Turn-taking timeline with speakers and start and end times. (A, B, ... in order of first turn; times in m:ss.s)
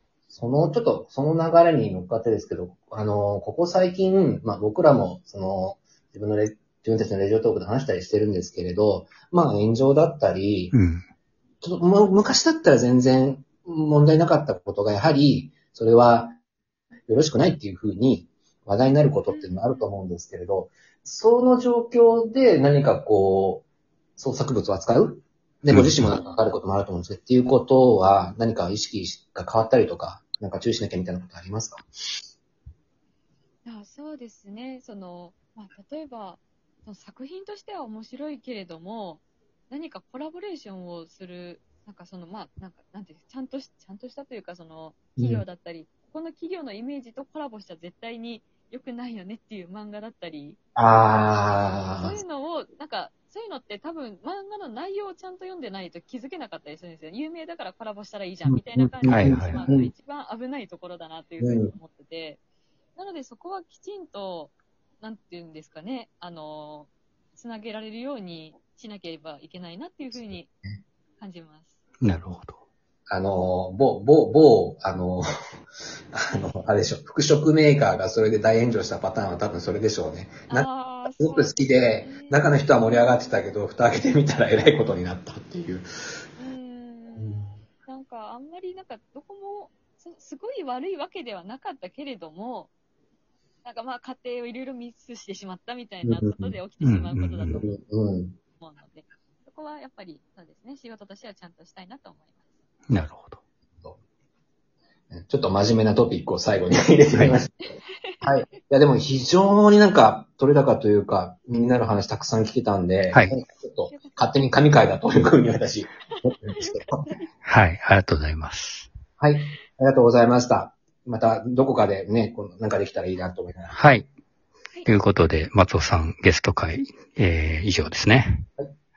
0:00.3-0:10.7 A
0:10.7-0:11.0 B
0:11.6-0:16.4 A
0:17.1-0:31.9 A
0:19.3-0:19.9 C
0:25.7-0:26.0 B
0:26.1-0:26.5 C
0:33.6-0:50.6 C
0:45.2-0:45.4 A
0:50.8-0:52.2 A
0:51.9-1:02.4 C
0:58.5-0:59.9 A
0:59.1-0:59.6 B
1:01.4-1:01.7 A
1:03.0-1:10.5 C
1:10.1-1:10.8 A
1:11.2-1:11.7 C
1:12.0-1:12.6 B
1:13.1-1:15.2 A
1:16.1-1:25.8 A
1:20.5-1:23.6 C
1:26.4-1:32.7 C
1:27.2-1:27.5 A
1:33.6-1:37.7 C
1:36.0-1:36.6 A
1:36.8-1:37.6 B
1:37.6-1:38.4 A
1:38.5-1:42.4 C
1:42.9-1:43.4 B
1:45.1-1:57.2 A
1:47.7-1:48.6 C
1:53.9-1:54.4 C
1:56.1-1:57.3 C
1:57.4-1:58.9 B
1:59.2-2:03.8 A
2:03.7-2:04.1 B
2:04.8-2:08.4 B